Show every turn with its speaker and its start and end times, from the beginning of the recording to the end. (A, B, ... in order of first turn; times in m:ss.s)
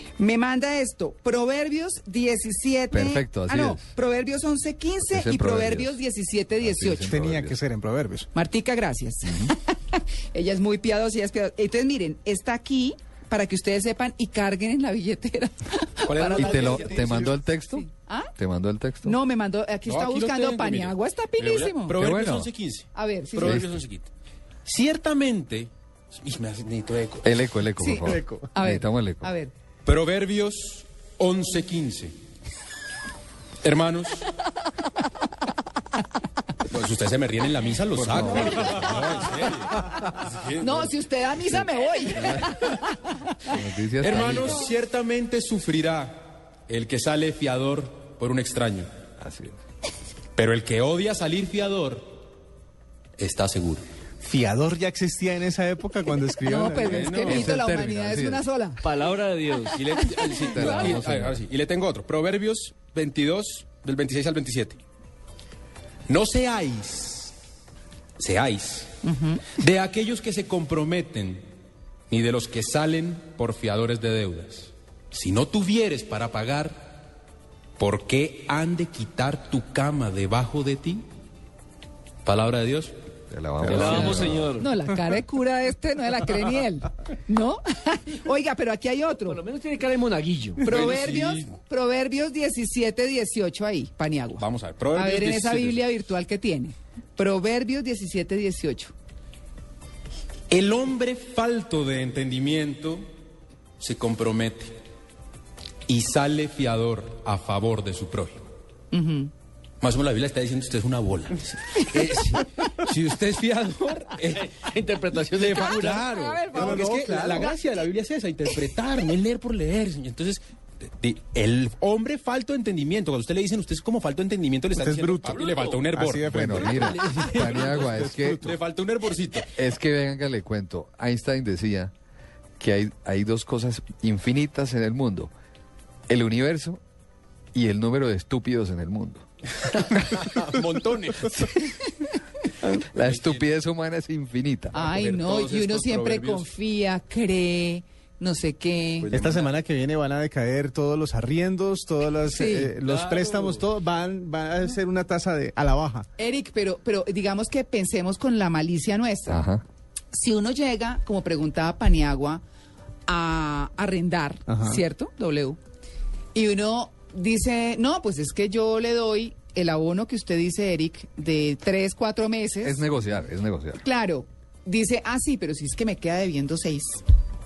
0:00.2-0:07.1 A
0:02.9-0:03.9 B
0:05.1-0:06.0 B
0:06.6-0:07.6 B
0:07.0-0:08.3 C
0:08.3-0:17.1 A
0:09.2-0:09.5 B
0:16.0-0:17.3 D
0:16.4-0:19.2 B
0:17.7-0:18.3 A
0:19.0-0:21.9 A
0:19.9-0:24.1 D
0:21.9-0:22.5 B
0:22.9-0:23.6 A
0:23.4-0:23.8 B
0:24.6-0:27.5 D
0:27.2-0:29.3 B
0:27.8-0:29.5 A
0:28.0-0:28.5 C
0:29.8-0:32.2 D
0:33.6-0:34.3 D
0:36.7-0:40.9 D
0:37.9-0:39.0 B
0:40.6-0:43.5 A
0:42.2-0:42.5 B
0:43.5-0:44.7 B
0:44.0-0:48.9 D
0:49.2-0:49.6 B
0:50.3-0:52.1 D
0:53.2-0:53.8 D
0:54.2-0:57.2 C
0:56.4-0:58.8 A
0:56.8-0:57.5 D
0:57.2-0:58.4 B
0:58.8-1:00.0 E
0:59.7-1:04.8 D
1:00.4-1:01.4 B
1:06.1-1:07.3 D
1:08.2-1:08.9 D
1:09.0-1:09.5 A
1:09.5-1:11.4 D
1:12.1-1:16.9 D
1:17.8-1:21.0 D
1:22.2-1:22.9 D
1:23.3-1:24.5 B
1:23.6-1:24.4 D
1:23.6-1:24.7 E
1:23.8-1:29.4 A
1:29.2-1:30.6 E
1:30.6-1:38.9 A
1:30.6-1:31.6 D
1:34.4-1:35.8 D
1:40.5-1:43.1 D
1:43.8-1:44.8 D
1:45.9-1:48.5 D
1:48.9-1:49.3 A
1:49.8-2:00.4 D
1:54.4-1:56.1 E
1:55.9-1:57.5 A
1:56.5-1:57.5 C
2:01.0-2:09.5 D
2:04.7-2:08.5 C
2:05.4-2:05.8 E
2:06.3-2:08.5 B
2:09.5-2:11.9 B
2:12.6-2:15.3 B
2:16.1-2:16.8 B
2:17.5-2:19.2 B
2:19.8-2:21.6 D
2:22.9-2:24.7 B
2:23.0-2:23.5 D
2:24.7-2:29.1 A
2:24.7-2:26.5 D
2:29.0-2:29.5 D
2:29.1-2:36.1 C
2:32.3-2:32.7 A
2:32.8-2:33.5 D
2:33.1-2:33.6 E
2:36.2-2:39.4 A
2:39.3-2:39.6 B
2:40.1-2:42.4 A
2:43.1-2:45.6 A
2:44.5-2:44.8 C
2:46.3-2:52.8 A
2:52.6-2:53.8 B
2:53.8-2:57.0 A